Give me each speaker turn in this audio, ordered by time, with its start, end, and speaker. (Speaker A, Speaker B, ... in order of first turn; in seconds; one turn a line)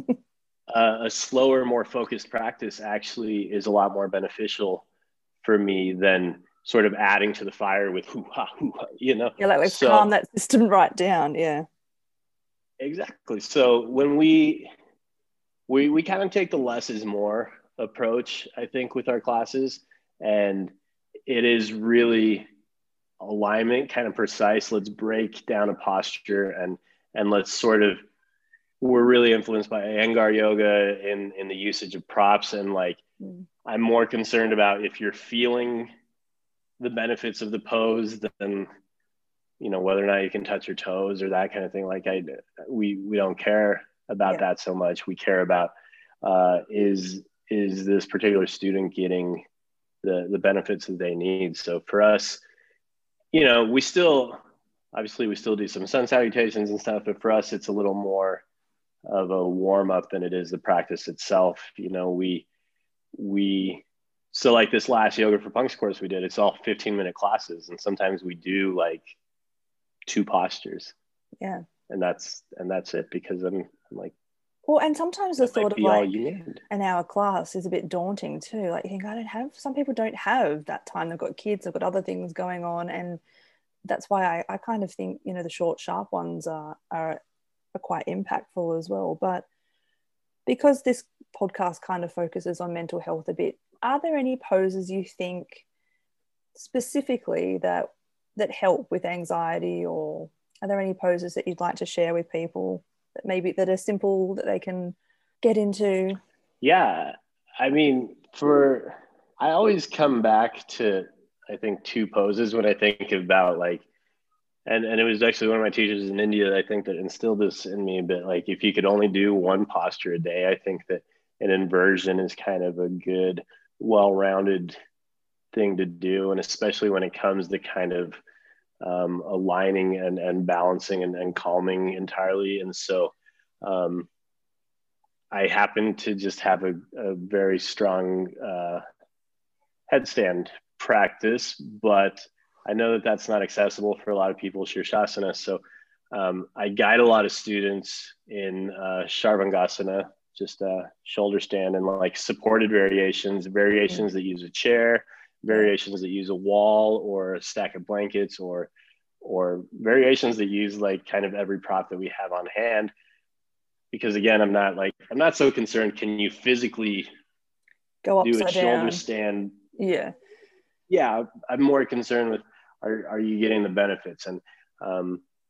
Speaker A: 0.7-4.8
Speaker A: 5.4-10.1
Speaker B: 9.4-11.7
Speaker A: 12.8-14.7
Speaker A: 15.7-20.7
Speaker A: 21.3-22.5
Speaker A: 23.2-28.0
Speaker A: 28.8-33.0
Speaker A: 33.6-35.9
Speaker A: 36.8-38.7
Speaker A: 39.6-45.7
Speaker A: 46.2-49.4
Speaker A: 50.0-52.4
Speaker A: 53.3-54.4
Speaker A: 54.9-58.4
Speaker A: 59.0-62.5
Speaker A: 63.1-69.1
Speaker A: 70.0-70.9
Speaker A: 71.9-74.1
Speaker B: 74.7-76.1
Speaker A: 75.4-76.6
Speaker B: 76.7-83.2
Speaker B: 83.8-87.2
Speaker B: 87.7-89.5
Speaker B: 90.5-95.6
Speaker B: 96.5-106.2
Speaker A: 106.6-113.8
Speaker A: 114.7-124.8
Speaker A: 125.5-128.2
Speaker A: 128.8-134.1
Speaker A: 135.3-138.8
Speaker A: 139.9-158.7
Speaker A: 159.2-162.9
Speaker A: 163.9-167.1
Speaker B: 168.0-169.0
Speaker A: 168.2-169.6
Speaker B: 169.8-170.1
Speaker A: 170.9-175.2